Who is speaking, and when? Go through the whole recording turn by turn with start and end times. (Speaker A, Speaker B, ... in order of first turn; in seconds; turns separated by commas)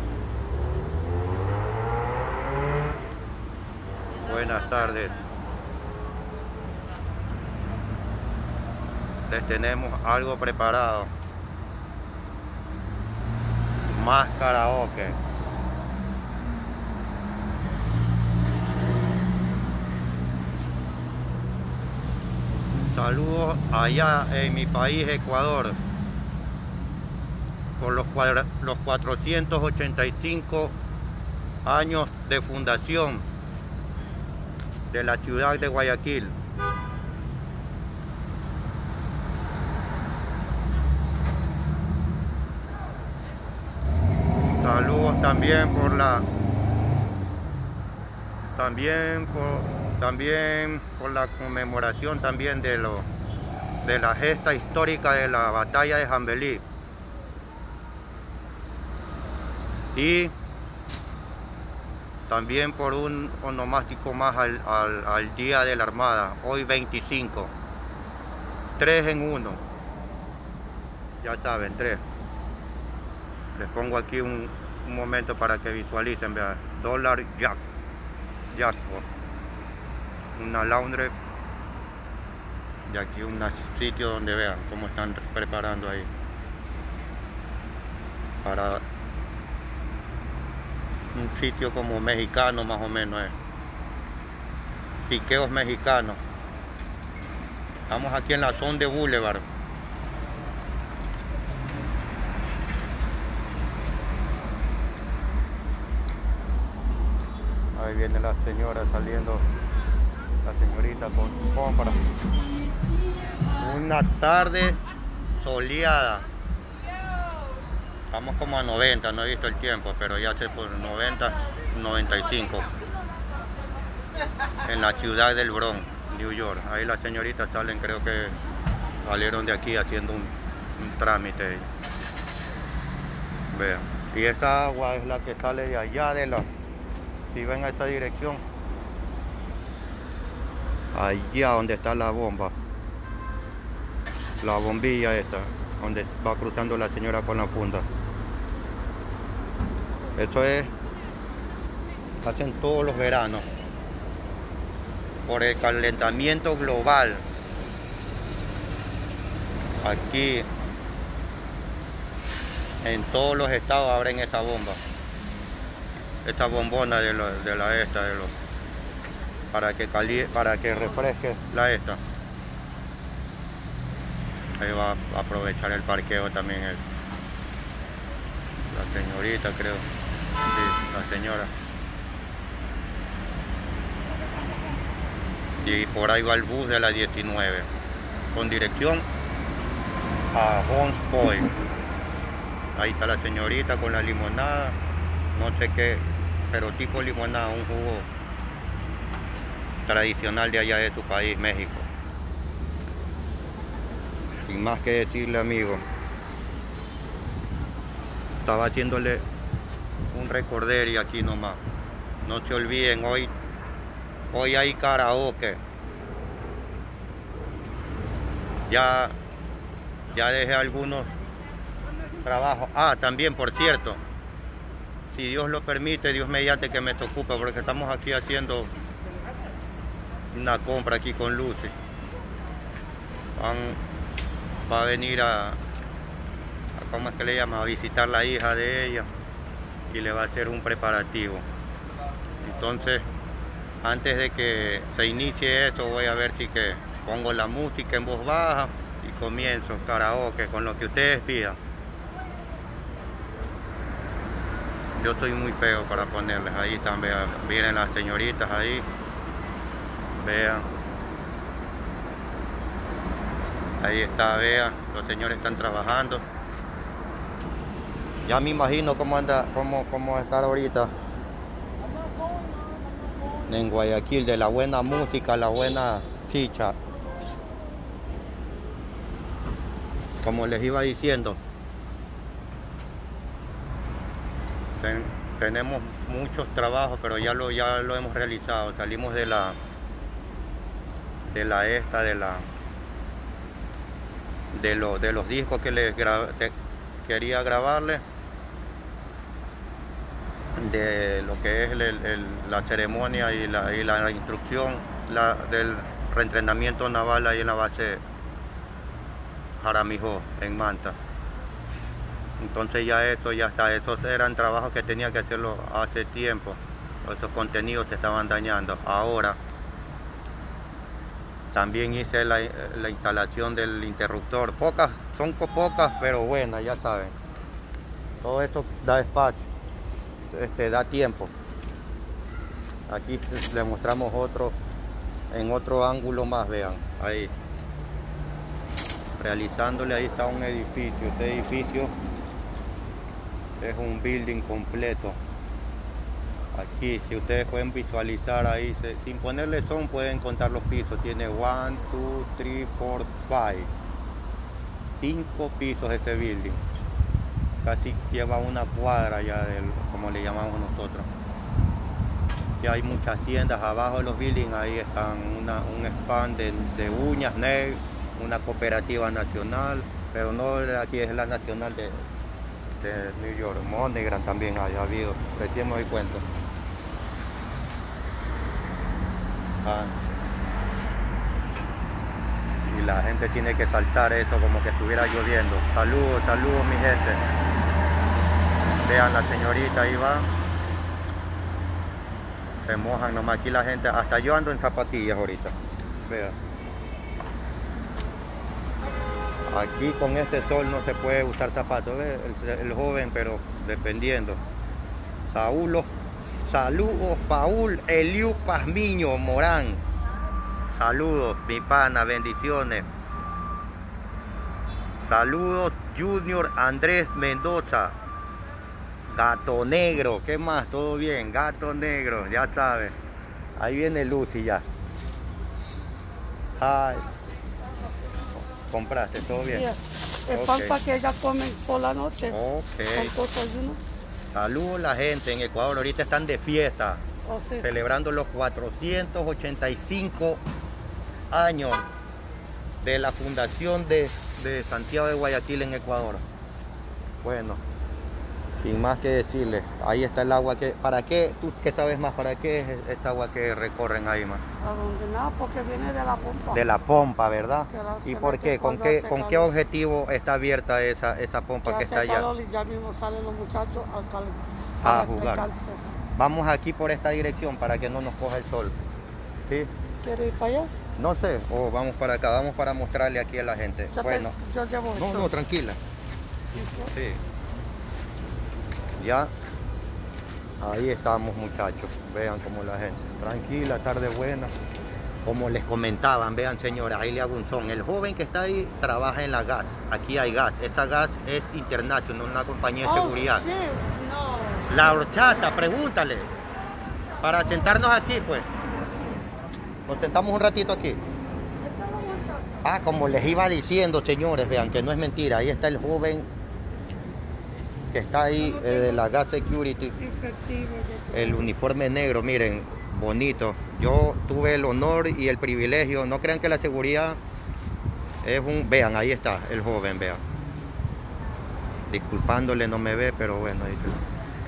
Speaker A: 4.2-5.2, Speaker A: 9.3-11.1, Speaker A: 13.9-15.2, Speaker A: 22.9-25.8, Speaker A: 27.8-30.7, Speaker A: 31.6-33.2, Speaker A: 34.9-36.3, Speaker A: 44.6-46.3, Speaker A: 48.5-53.1, Speaker A: 53.8-56.6, Speaker A: 59.9-60.3, Speaker A: 62.3-67.5, Speaker A: 68.8-69.6, Speaker A: 71.2-72.0, Speaker A: 73.5-77.6, Speaker A: 78.5-79.0, Speaker A: 80.4-81.1, Speaker A: 82.9-86.1, Speaker A: 88.4-88.8, Speaker A: 91.1-93.3, Speaker A: 95.1-96.2, Speaker A: 97.9-99.4, Speaker A: 107.8-109.5, Speaker A: 110.4-112.0, Speaker A: 113.6-114.8, Speaker A: 115.4-116.3, Speaker A: 118.1-122.7, Speaker A: 124.6-128.4, Speaker A: 129.0-131.7, Speaker A: 133.5-136.5, Speaker A: 137.3-138.4, Speaker A: 140.9-142.5, Speaker A: 144.4-147.9, Speaker A: 150.2-150.7, Speaker A: 152.2-153.5, Speaker A: 155.3-157.2, Speaker A: 159.8-160.5, Speaker A: 162.8-164.8, Speaker A: 166.2-168.3, Speaker A: 169.5-172.0, Speaker A: 174.6-176.8, Speaker A: 178.7-179.8, Speaker A: 180.4-181.5, Speaker A: 185.6-187.7, Speaker A: 188.3-189.1, Speaker A: 190.3-191.5, Speaker A: 192.8-194.8, Speaker A: 195.3-198.1, Speaker A: 199.9-201.9, Speaker A: 204.5-205.8, Speaker A: 208.4-209.2, Speaker A: 210.1-211.6, Speaker A: 212.2-213.3, Speaker A: 214.3-215.6, Speaker A: 218.7-219.2, Speaker A: 220.1-221.1, Speaker A: 222.2-224.0, Speaker A: 225.1-228.7, Speaker A: 230.3-231.7, Speaker A: 233.4-233.8, Speaker A: 234.7-235.6, Speaker A: 236.8-239.1, Speaker A: 239.9-241.5, Speaker A: 242.4-243.0, Speaker A: 243.8-251.6, Speaker A: 255.0-258.9, Speaker A: 260.2-260.7, Speaker A: 263.8-266.2, Speaker A: 268.3-270.9, Speaker A: 273.5-276.8, Speaker A: 280.2-281.4, Speaker A: 284.8-289.6, Speaker A: 291.3-292.5, Speaker A: 294.5-296.5, Speaker A: 297.1-298.0, Speaker A: 300.6-308.0, Speaker A: 309.6-311.0, Speaker A: 312.4-319.4, Speaker A: 321.5-327.1, Speaker A: 328.2-329.5, Speaker A: 330.3-331.3, Speaker A: 332.9-334.6, Speaker A: 335.3-337.3, Speaker A: 339.2-341.9, Speaker A: 343.6-345.2, Speaker A: 346.5-353.7, Speaker A: 354.9-356.6, Speaker A: 357.6-361.1, Speaker A: 362.6-372.0, Speaker A: 372.8-376.2, Speaker A: 379.6-379.9, Speaker A: 382.6-387.2, Speaker A: 388.8-390.3, Speaker A: 392.6-395.6, Speaker A: 396.1-396.4, Speaker A: 399.5-404.4, Speaker A: 405.3-405.9, Speaker A: 406.4-409.8, Speaker A: 410.7-412.9, Speaker A: 415.0-417.9, Speaker A: 419.1-422.9, Speaker A: 423.6-424.6, Speaker A: 426.6-427.1, Speaker A: 428.4-429.7, Speaker B: 429.5-432.4, Speaker A: 430.3-430.8, Speaker A: 432.3-433.1, Speaker B: 432.9-433.8, Speaker A: 434.3-437.0, Speaker B: 437.3-437.6, Speaker A: 437.6-440.4, Speaker A: 441.3-441.9, Speaker A: 442.8-446.2, Speaker A: 447.2-447.6, Speaker A: 448.6-454.4, Speaker B: 454.6-456.6, Speaker A: 456.5-462.3, Speaker B: 457.7-459.5, Speaker B: 461.7-465.8, Speaker A: 464.8-465.5, Speaker A: 466.2-468.8, Speaker B: 470.0-470.7, Speaker A: 471.0-474.3, Speaker B: 474.0-475.3, Speaker A: 474.9-475.8, Speaker B: 476.5-476.9, Speaker A: 476.9-477.2, Speaker A: 479.0-479.3, Speaker A: 480.6-484.5, Speaker A: 485.2-493.5, Speaker B: 492.9-494.6, Speaker A: 494.7-496.3, Speaker A: 497.2-498.5, Speaker A: 499.9-501.0, Speaker B: 501.6-502.4, Speaker A: 502.6-506.3, Speaker A: 507.9-510.0, Speaker B: 510.0-511.4, Speaker A: 511.1-517.2, Speaker A: 518.2-520.2, Speaker A: 521.9-524.0